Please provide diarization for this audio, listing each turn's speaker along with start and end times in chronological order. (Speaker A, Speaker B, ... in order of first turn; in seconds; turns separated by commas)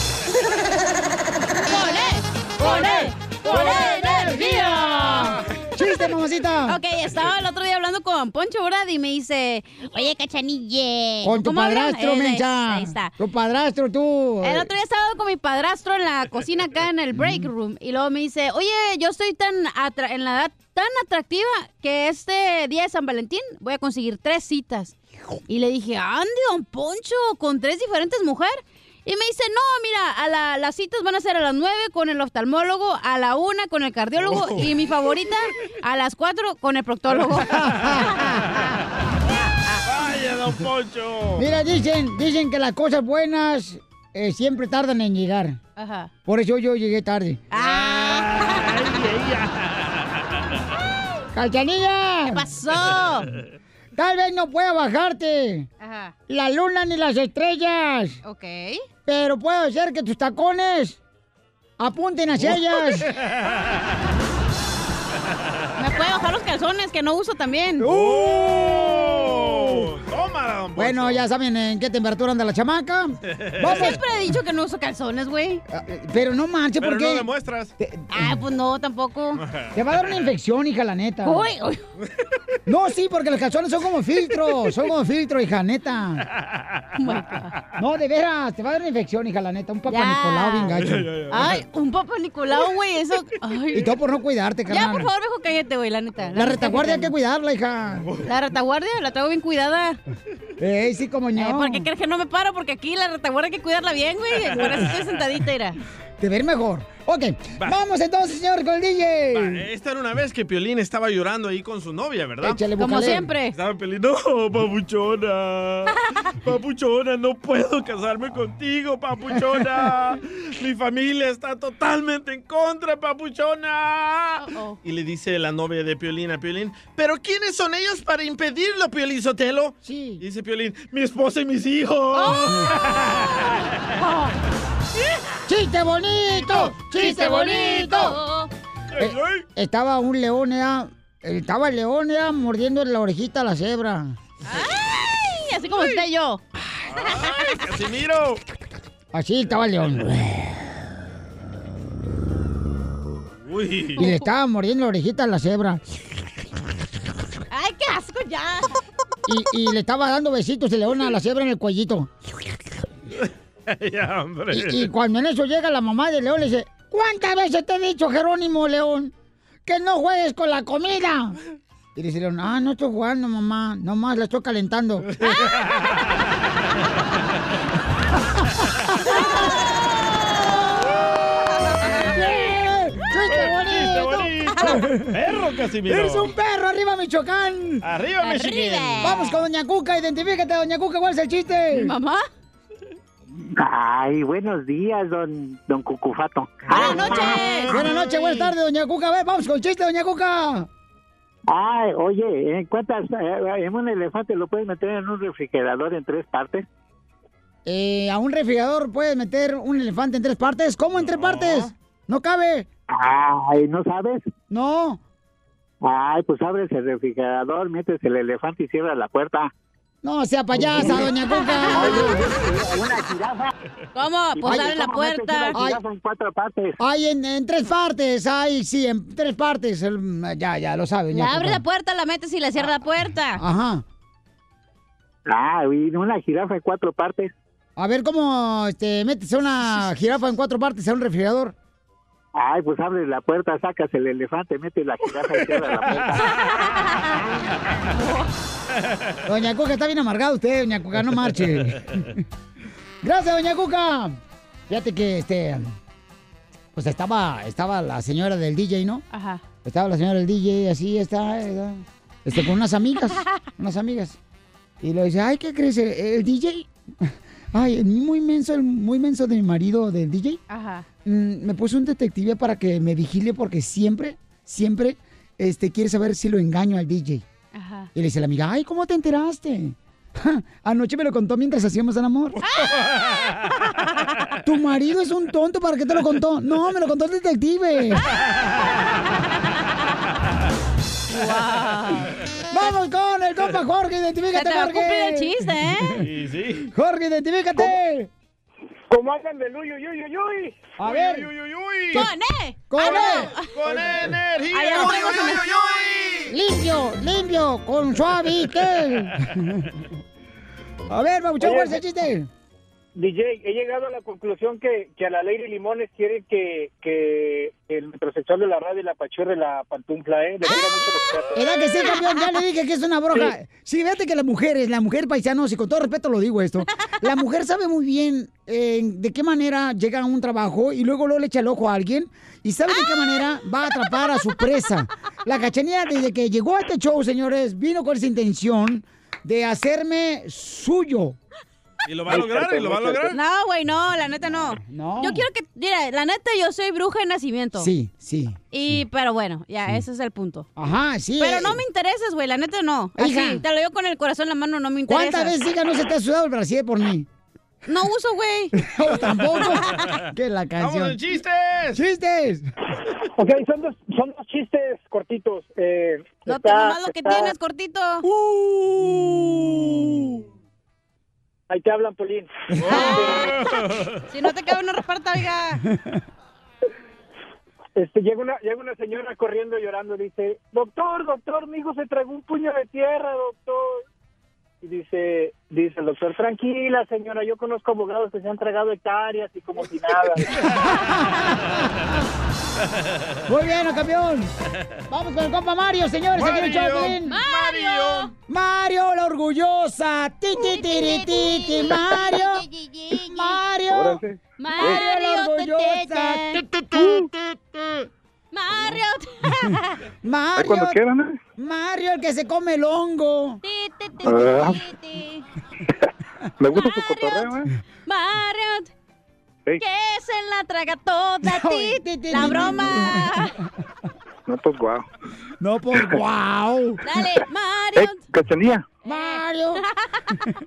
Speaker A: 1.6-5.4, Speaker B: 2.6-6.8, Speaker A: 6.7-13.1, Speaker B: 11.2-14.7, Speaker A: 14.4-24.9, Speaker B: 17.1-17.5, Speaker A: 25.5-38.4, Speaker C: 34.2-34.8, Speaker B: 37.4-38.3, Speaker C: 39.9-41.4, Speaker B: 41.4-45.6, Speaker A: 45.8-46.1, Speaker B: 46.3-47.4, Speaker A: 47.5-48.8, Speaker C: 47.6-50.2, Speaker B: 51.3-52.4, Speaker A: 52.3-53.3, Speaker B: 54.0-55.7, Speaker A: 55.8-56.1, Speaker B: 56.3-58.2, Speaker A: 58.2-58.8, Speaker B: 59.1-61.0, Speaker B: 61.8-63.1, Speaker C: 63.0-63.6, Speaker A: 65.8-67.9, Speaker B: 67.8-69.8, Speaker C: 67.8-71.3, Speaker B: 70.8-74.0, Speaker C: 73.3-73.8, Speaker A: 73.6-75.6, Speaker B: 75.7-77.3, Speaker C: 76.8-77.7, Speaker B: 77.8-78.4, Speaker A: 78.1-79.4, Speaker C: 79.4-79.7, Speaker B: 79.7-81.5, Speaker A: 81.2-81.8, Speaker B: 82.7-86.3, Speaker C: 86.4-86.9, Speaker A: 87.0-87.6, Speaker B: 87.8-91.1, Speaker A: 89.9-90.7, Speaker C: 90.8-91.6, Speaker A: 91.3-93.9, Speaker B: 93.7-95.1, Speaker A: 94.7-97.1, Speaker B: 96.3-98.1, Speaker A: 98.2-100.0, Speaker B: 100.6-101.9, Speaker A: 101.4-105.8, Speaker C: 104.5-104.9, Speaker B: 106.2-109.6, Speaker C: 109.3-112.6, Speaker B: 112.4-113.3, Speaker A: 112.8-113.5, Speaker C: 113.5-133.5, Speaker A: 124.4-124.8, Speaker B: 129.8-130.2, Speaker A: 132.1-132.8, Speaker A: 134.0-134.3, Speaker B: 135.5-138.2, Speaker A: 136.4-138.5, Speaker C: 138.9-139.4, Speaker B: 139.0-144.2, Speaker A: 144.4-146.4, Speaker C: 146.9-148.4, Speaker B: 149.1-150.6, Speaker C: 153.4-154.0, Speaker B: 154.0-155.8, Speaker A: 157.5-158.8, Speaker B: 159.3-162.1, Speaker C: 163.2-164.9, Speaker B: 164.5-169.1, Speaker B: 169.7-171.4, Speaker B: 171.9-175.1, Speaker C: 175.2-176.0, Speaker B: 181.9-185.0, Speaker C: 183.3-186.3, Speaker B: 185.9-187.8, Speaker C: 187.8-188.9, Speaker A: 188.2-189.4, Speaker B: 189.0-191.9, Speaker A: 191.7-192.2, Speaker D: 193.6-197.4, Speaker C: 196.7-197.9, Speaker A: 196.7-198.5, Speaker B: 196.9-197.2, Speaker B: 197.7-200.7, Speaker D: 201.5-206.6, Speaker B: 207.6-212.7, Speaker C: 211.0-211.7, Speaker D: 212.9-214.2, Speaker B: 214.5-215.0, Speaker D: 215.8-219.5, Speaker B: 220.0-222.2, Speaker A: 221.4-222.1, Speaker D: 221.8-223.5, Speaker A: 223.9-225.6, Speaker D: 224.4-226.8, Speaker B: 224.4-224.7, Speaker B: 225.5-225.8, Speaker B: 226.8-231.6, Speaker A: 231.1-233.4, Speaker B: 233.4-233.8, Speaker D: 235.3-237.3, Speaker B: 237.8-241.6, Speaker D: 242.3-246.3, Speaker A: 246.2-247.2, Speaker A: 247.9-248.3, Speaker B: 249.2-252.2, Speaker B: 253.0-254.2, Speaker B: 254.7-255.7, Speaker B: 256.7-259.0, Speaker A: 259.1-259.4, Speaker B: 259.6-264.2, Speaker B: 264.8-270.4, Speaker A: 270.5-270.9, Speaker B: 271.1-277.2, Speaker A: 277.5-277.9, Speaker B: 277.9-282.4, Speaker B: 284.4-288.1, Speaker A: 291.1-292.1, Speaker B: 292.5-295.9, Speaker A: 294.3-295.9, Speaker C: 296.0-296.7, Speaker B: 296.7-298.1, Speaker E: 298.9-300.7, Speaker B: 300.8-301.3, Speaker C: 300.8-302.1, Speaker A: 301.9-303.5, Speaker B: 302.7-303.3, Speaker C: 302.8-306.3, Speaker A: 304.5-305.6, Speaker B: 306.3-309.7, Speaker B: 310.9-312.3, Speaker E: 311.4-311.8, Speaker E: 312.9-321.4, Speaker B: 321.4-341.2, Speaker A: 321.8-322.3, Speaker A: 332.9-333.3, Speaker C: 341.9-343.2, Speaker B: 342.1-343.0, Speaker A: 343.1-347.7, Speaker B: 344.5-345.2, Speaker B: 347.6-348.4, Speaker A: 348.5-350.4, Speaker B: 350.6-351.6, Speaker A: 351.2-355.4, Speaker B: 353.0-353.4, Speaker B: 354.9-357.1, Speaker A: 357.6-358.6, Speaker B: 358.6-361.0, Speaker A: 359.4-359.9, Speaker C: 360.6-361.8, Speaker B: 361.7-362.5, Speaker E: 363.2-367.3, Speaker A: 366.3-368.1, Speaker C: 368.2-370.1, Speaker E: 371.5-373.3, Speaker C: 372.6-374.0, Speaker A: 372.6-373.4, Speaker A: 374.1-375.6, Speaker E: 377.8-383.8, Speaker E: 384.6-390.3, Speaker B: 390.6-391.5, Speaker B: 393.3-394.3, Speaker B: 394.9-397.2, Speaker C: 396.1-398.1, Speaker A: 396.9-398.1, Speaker B: 398.3-402.4, Speaker A: 400.4-403.4, Speaker B: 403.0-404.0, Speaker F: 403.7-404.8, Speaker A: 404.4-406.5, Speaker B: 404.6-407.1, Speaker A: 408.3-409.8, Speaker B: 410.0-410.8, Speaker F: 410.4-411.2, Speaker B: 411.4-413.4, Speaker A: 413.4-415.2, Speaker F: 414.0-414.6, Speaker F: 416.4-417.5, Speaker A: 416.5-418.7, Speaker A: 419.6-423.4, Speaker B: 421.2-423.2, Speaker F: 424.3-424.9, Speaker B: 425.4-426.8, Speaker A: 426.8-428.1, Speaker F: 427.8-428.6, Speaker B: 428.8-429.6, Speaker A: 428.9-430.1